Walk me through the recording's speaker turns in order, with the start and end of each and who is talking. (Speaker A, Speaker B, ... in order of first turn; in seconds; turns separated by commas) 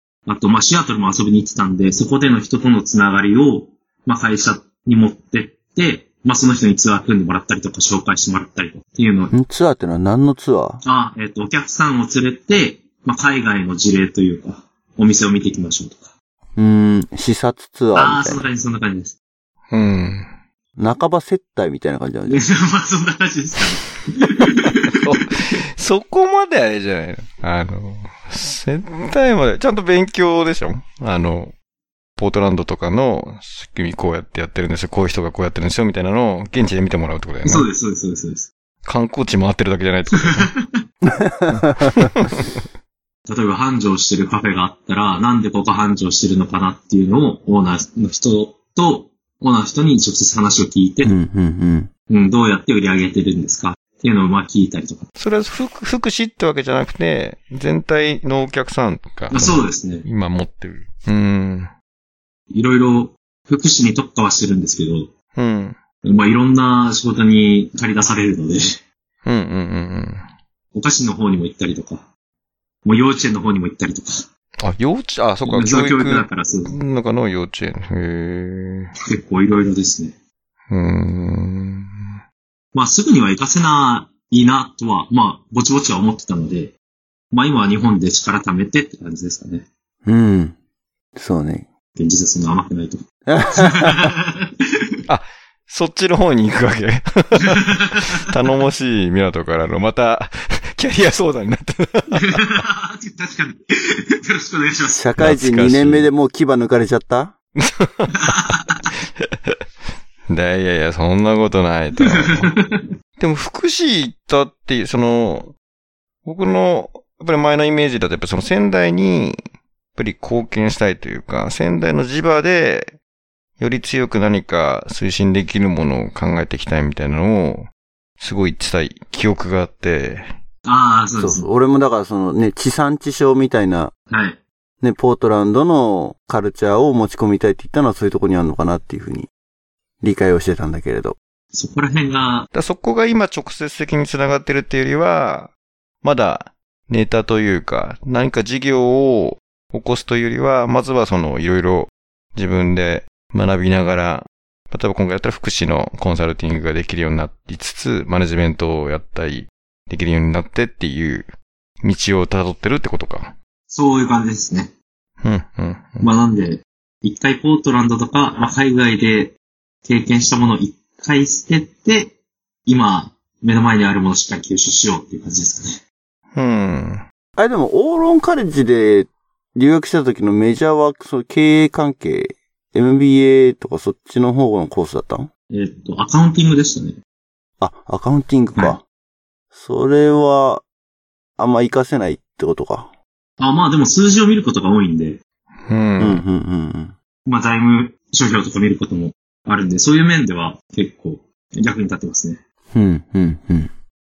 Speaker A: 0.3-9.3, Speaker B: 9.3-10.8, Speaker A: 10.8-16.1, Speaker B: 16.6-18.5, Speaker A: 17.9-19.2, Speaker C: 19.7-20.3, Speaker B: 20.8-22.4, Speaker A: 22.3-25.0, Speaker C: 24.5-31.5, Speaker C: 32.2-37.7, Speaker A: 37.4-38.5, Speaker C: 38.8-40.5, Speaker A: 40.2-40.8, Speaker B: 41.0-42.1, Speaker C: 41.8-42.6, Speaker A: 43.3-51.1, Speaker B: 51.0-51.9, Speaker A: 52.1-55.1, Speaker C: 55.2-61.7, Speaker A: 59.3-60.1, Speaker A: 62.5-65.1, Speaker C: 65.3-65.8, Speaker A: 66.0-68.8, Speaker C: 69.2-70.3, Speaker A: 70.7-72.1, Speaker A: 72.8-74.3, Speaker C: 74.6-78.9, Speaker A: 75.4-76.8, Speaker A: 79.0-80.2, Speaker C: 80.7-82.1, Speaker A: 82.7-86.8, Speaker A: 87.3-89.7, Speaker B: 90.0-90.6, Speaker B: 91.2-91.7, Speaker A: 92.0-93.0, Speaker B: 93.3-94.1, Speaker A: 93.6-94.5, Speaker C: 95.1-102.6, Speaker A: 97.5-98.2, Speaker A: 102.1-105.1, Speaker B: 104.9-107.3, Speaker C: 105.2-106.1, Speaker C: 107.6-108.5, Speaker A: 108.2-108.9, Speaker C: 109.2-109.6, Speaker C: 110.3-112.5, Speaker A: 112.0-112.8, Speaker C: 113.2-115.5, Speaker C: 116.2-119.4, Speaker C: 120.0-123.0, Speaker C: 123.6-127.7, Speaker C: 128.2-130.3, Speaker A: 130.7-131.5, Speaker B: 131.2-133.9, Speaker A: 134.1-134.4, Speaker B: 134.8-139.3, Speaker B: 140.0-141.2, Speaker A: 141.5-142.5, Speaker C: 142.5-163.3, Speaker A: 163.7-164.7, Speaker C: 165.2-166.1, Speaker A: 166.0-172.2, Speaker A: 172.7-175.8, Speaker C: 176.3-177.0, Speaker B: 177.4-185.3, Speaker A: 185.5-187.0, Speaker B: 187.6-188.8, Speaker B: 189.5-190.7, Speaker B: 191.4-192.9, Speaker A: 193.4-195.2, Speaker C: 195.7-196.2, Speaker B: 196.0-196.9, Speaker A: 197.3-202.4, Speaker B: 202.7-203.7